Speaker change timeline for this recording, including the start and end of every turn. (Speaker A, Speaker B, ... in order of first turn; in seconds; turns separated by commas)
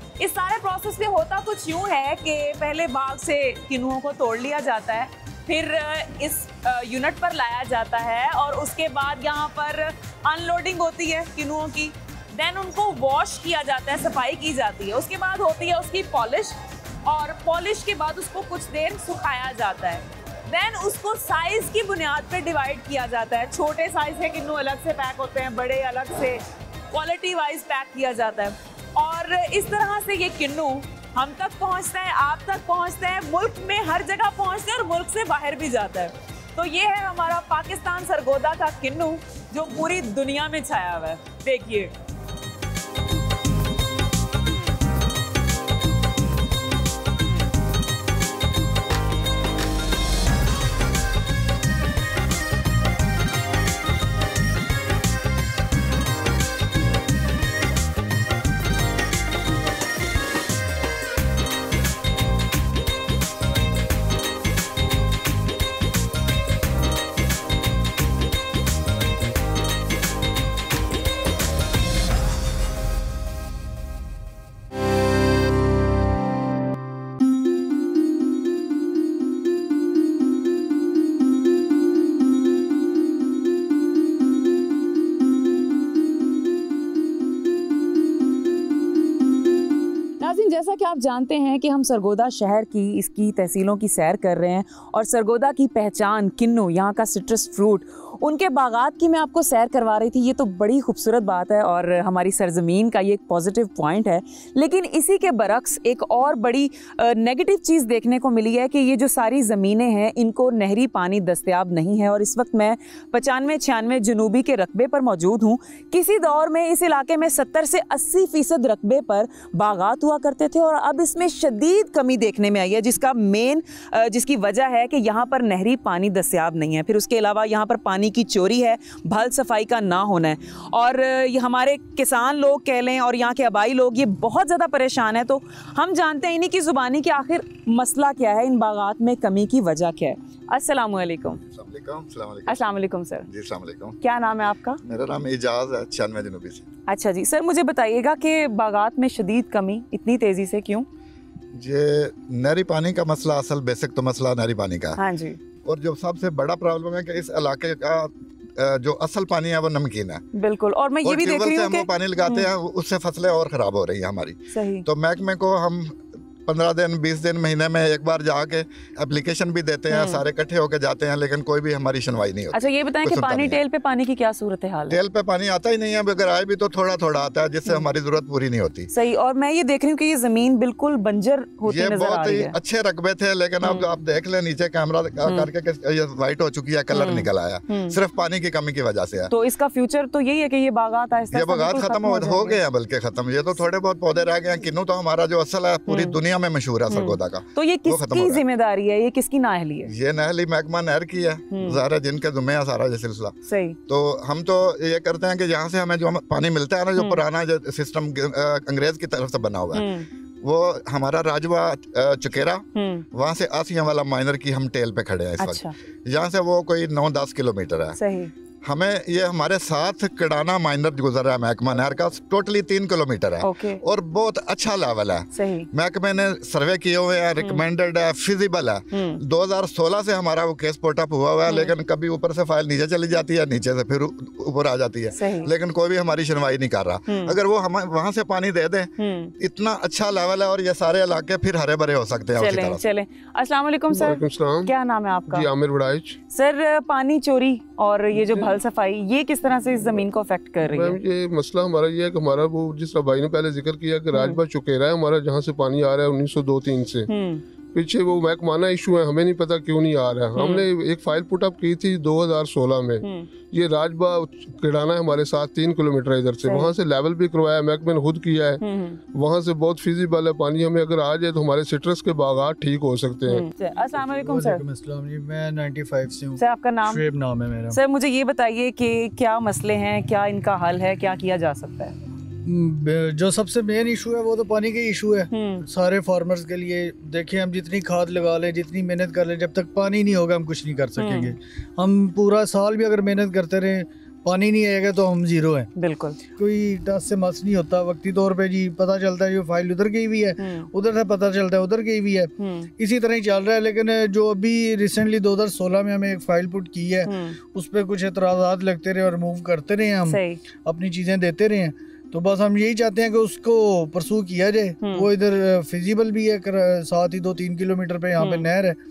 Speaker A: 0.2-41.9, Speaker A: 90.2-141.4, Speaker B: 141.4-142.7, Speaker A: 142.5-143.3, Speaker B: 143.3-144.0, Speaker A: 144.0-144.8, Speaker B: 144.8-146.7, Speaker A: 146.9-150.9, Speaker B: 151.6-155.0, Speaker A: 155.0-155.4, Speaker B: 155.7-160.2, Speaker A: 160.3-162.5, Speaker B: 161.0-173.6, Speaker A: 164.5-164.8, Speaker A: 169.9-170.2, Speaker A: 172.5-175.0, Speaker B: 174.9-178.9, Speaker A: 178.9-182.6, Speaker B: 181.7-189.3, Speaker A: 186.9-187.9, Speaker A: 189.3-192.6, Speaker B: 191.3-198.4, Speaker A: 195.9-196.2, Speaker A: 196.9-199.9, Speaker B: 199.9-203.4, Speaker A: 201.5-201.8, Speaker A: 203.5-203.8, Speaker B: 203.9-209.9, Speaker A: 209.8-210.1, Speaker B: 210.4-218.0, Speaker A: 212.8-213.1, Speaker A: 215.4-215.7, Speaker A: 218.0-218.3, Speaker B: 218.6-242.8, Speaker A: 223.4-223.8, Speaker A: 225.3-225.7, Speaker A: 228.9-229.2, Speaker A: 235.2-235.5, Speaker A: 237.1-237.3, Speaker A: 239.0-239.3, Speaker A: 242.4-245.5, Speaker C: 243.9-244.7, Speaker C: 245.3-246.2, Speaker A: 246.3-251.0, Speaker C: 248.2-248.5, Speaker C: 250.6-257.1, Speaker A: 254.1-254.4, Speaker A: 257.1-257.4, Speaker C: 257.7-268.6, Speaker A: 260.4-260.7, Speaker A: 263.0-263.3, Speaker A: 266.4-266.7, Speaker A: 268.6-269.0, Speaker C: 269.1-273.5, Speaker A: 273.3-274.6, Speaker D: 273.9-277.8, Speaker A: 276.4-277.0, Speaker A: 277.7-281.9, Speaker D: 282.4-295.7, Speaker A: 285.3-285.6, Speaker A: 291.0-291.4, Speaker A: 295.8-296.2, Speaker D: 296.4-318.8, Speaker A: 300.4-300.7, Speaker A: 302.4-302.7, Speaker A: 307.1-307.4, Speaker A: 310.1-310.4, Speaker A: 314.8-315.1, Speaker A: 318.2-318.5